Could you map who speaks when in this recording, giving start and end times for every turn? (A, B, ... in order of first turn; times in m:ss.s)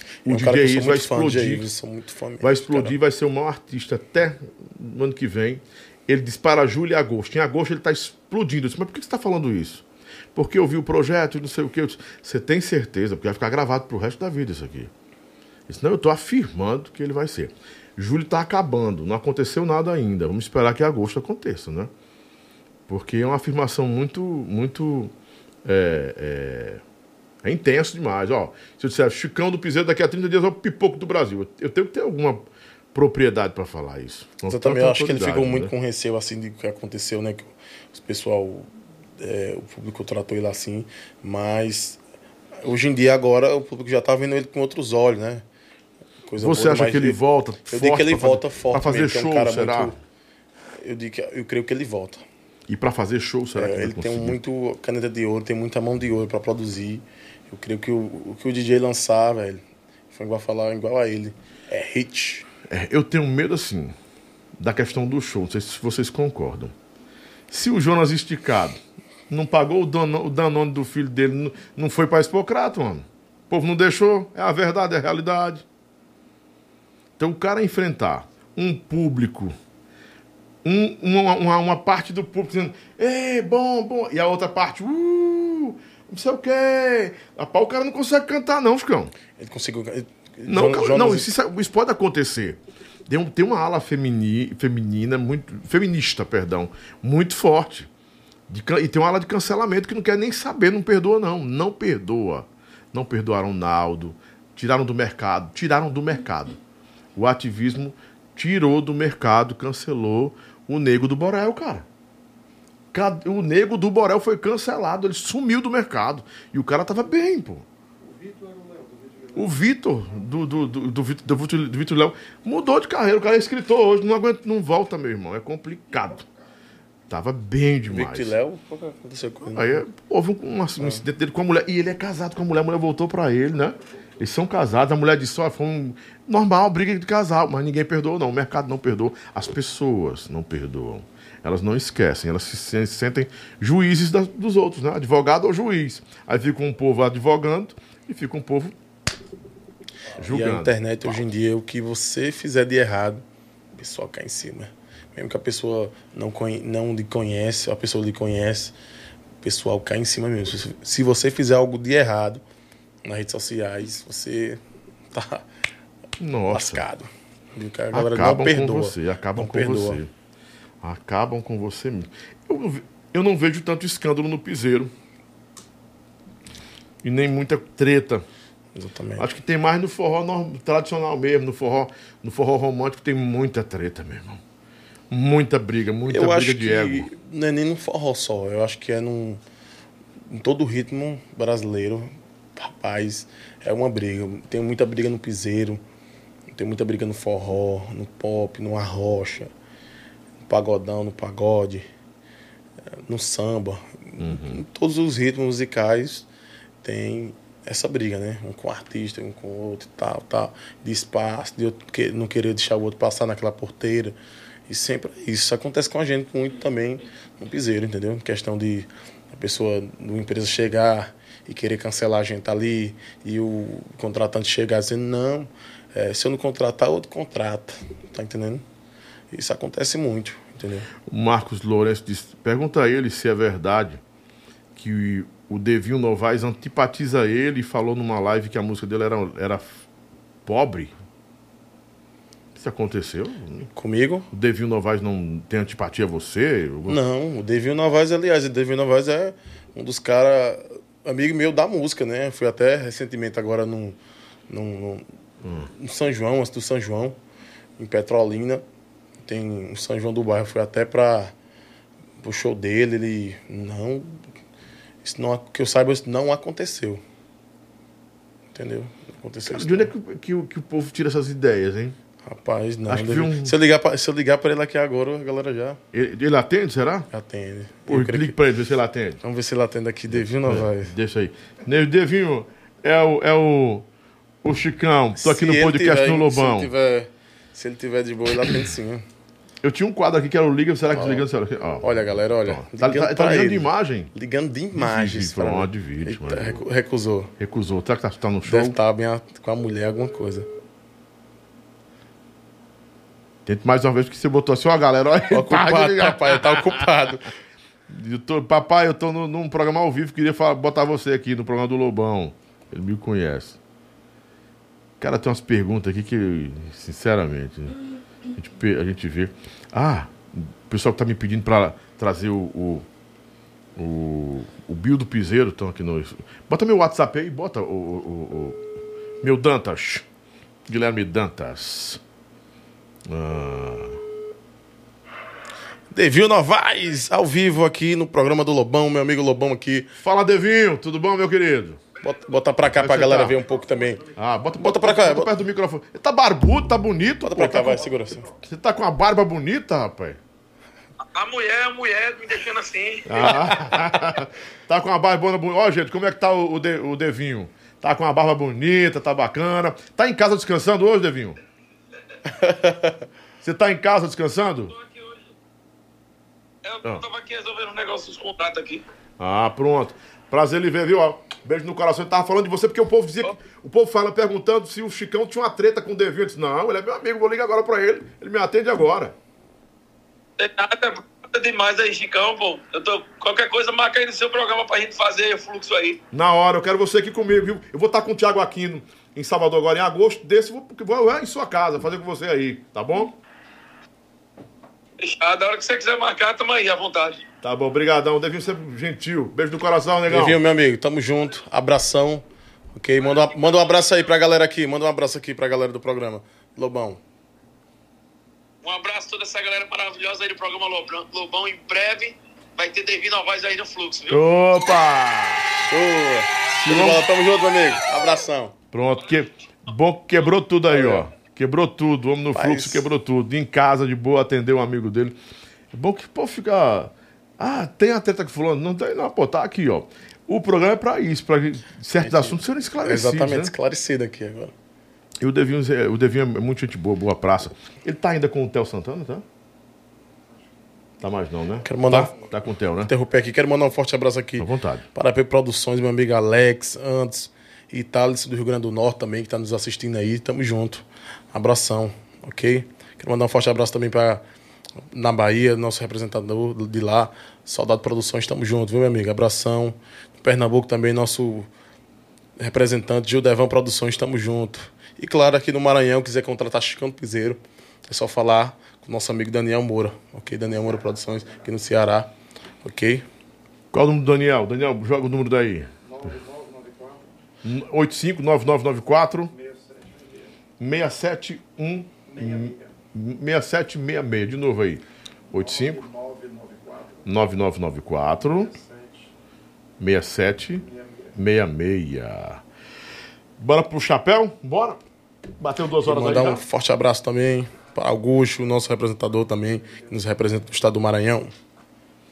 0:00.2-0:01.6 A
0:00.2-0:03.0 B
0:02.4-0:09.8 A
0:10.3-0:14.9 A
0:15.7-0:21.9 A
0:22.9-0:25.1 A
0:25.6-0:26.8 A
0:27.4-0:35.7 A
0:34.4-0:38.7 B
0:39.2-0:42.0 B
0:42.6-0:45.4 B
0:46.2-0:49.9 B
0:46.4-0:49.9 A
0:50.8-0:52.2 B
0:52.7-0:54.4 A
0:53.6-1:02.5 B
1:02.7-1:03.9 A
1:04.6-1:06.7 A
1:07.5-1:15.6 A
1:17.2-1:19.5 A
1:20.6-1:29.1 A
1:29.4-1:31.3 B
1:30.4-1:37.9 A
1:38.5-1:46.6 A
1:47.2-1:51.8 A
1:52.9-1:57.6 A
1:59.3-2:06.2 A
2:07.1-2:08.3 A
2:07.9-2:09.8 B
2:09.5-2:28.7 A
2:30.2-2:30.8 A
2:30.2-2:33.2 B
2:33.7-2:38.7 B
2:39.4-2:42.4 B
2:43.0-2:44.6 B
2:45.1-2:45.4 B
2:46.2-2:46.8 A
2:46.5-2:50.0 B
2:47.9-2:50.1 A
2:50.8-2:54.9 A
2:57.0-2:58.2 A
2:58.7-2:59.3 B
2:59.2-3:04.4 A
3:05.1-3:07.1 A
3:06.1-3:09.4 B
3:10.3-3:15.8 B
3:16.5-3:19.5 B
3:20.5-3:21.8 B
3:23.0-3:26.3 B
3:24.2-3:24.6 A
3:26.8-3:34.2 B
3:34.7-3:48.6 B
3:49.3-3:50.9 B
3:51.0-3:54.0 A
3:54.7-3:59.8 A
4:00.4-4:00.9 A
4:02.5-4:03.7 A
4:03.7-4:04.3 B
4:04.3-4:07.0 A
4:06.9-4:14.0 B
4:14.5-4:15.0 B
4:15.4-4:15.7 A
4:15.7-4:17.2 B
4:17.8-4:18.6 B
4:19.2-4:21.3 B
4:22.2-4:24.2 B
4:25.0-4:27.0 B
4:28.5-4:29.9 B
4:29.4-4:32.0 A
4:32.2-4:35.8 B
4:32.9-4:33.5 A
4:35.9-4:37.1 A
4:37.1-4:38.4 B
4:37.9-4:39.2 A
4:39.2-4:40.9 B
4:40.1-4:43.8 A
4:44.4-4:46.7 A
4:45.2-4:49.0 B
4:49.6-4:51.9 A
4:50.9-4:51.2 B
4:51.8-4:57.3 B
4:52.4-4:54.1 A
4:54.7-4:56.6 A
4:57.4-4:58.8 A
4:58.4-5:00.5 B
5:03.4-5:06.9 A
5:05.3-5:07.3 B
5:07.9-5:13.6 A
5:15.0-5:17.8 A
5:18.3-5:22.9 A
5:23.8-5:28.6 A
5:29.2-5:30.0 A
5:30.7-5:32.0 A
5:33.1-5:34.0 A
5:35.9-5:39.9 B
5:40.0-5:41.8 A
5:42.0-5:44.1 B
5:42.7-5:43.4 A
5:44.1-5:50.2 A
5:44.6-5:45.3 B
5:47.2-5:48.3 B
5:51.1-5:53.7 C
5:53.0-6:01.4 A
6:02.4-6:02.9 B
6:03.4-6:04.7 A
6:04.7-6:05.2 C
6:06.6-6:08.8 C
6:09.2-6:19.1 A
6:20.4-6:26.0 C
6:26.1-6:33.2 A
6:35.0-6:37.2 C
6:37.4-6:40.4 A
6:40.1-6:47.0 B
6:48.6-6:54.2 C
6:54.1-6:55.6 A
6:55.6-6:58.5 B
6:56.6-6:57.0 A
6:58.7-7:05.2 A
7:00.7-7:01.1 B
7:02.3-7:02.8 B
7:05.7-7:13.5 A
7:12.0-7:14.5 B
7:15.2-7:19.2 A
7:21.0-7:22.9 A
7:21.6-7:22.2 B
7:22.8-7:34.2 B
7:24.4-7:24.8 A
7:34.9-7:41.5 B
7:42.4-7:52.1 B
7:52.6-7:53.0 B
7:53.7-7:56.3 A
7:57.4-7:59.3 A
8:00.6-8:06.1 A
8:07.0-8:08.6 A
8:09.8-8:12.4 A
8:13.4-8:14.8 A
8:15.4-8:16.4 A
8:15.8-8:21.3 B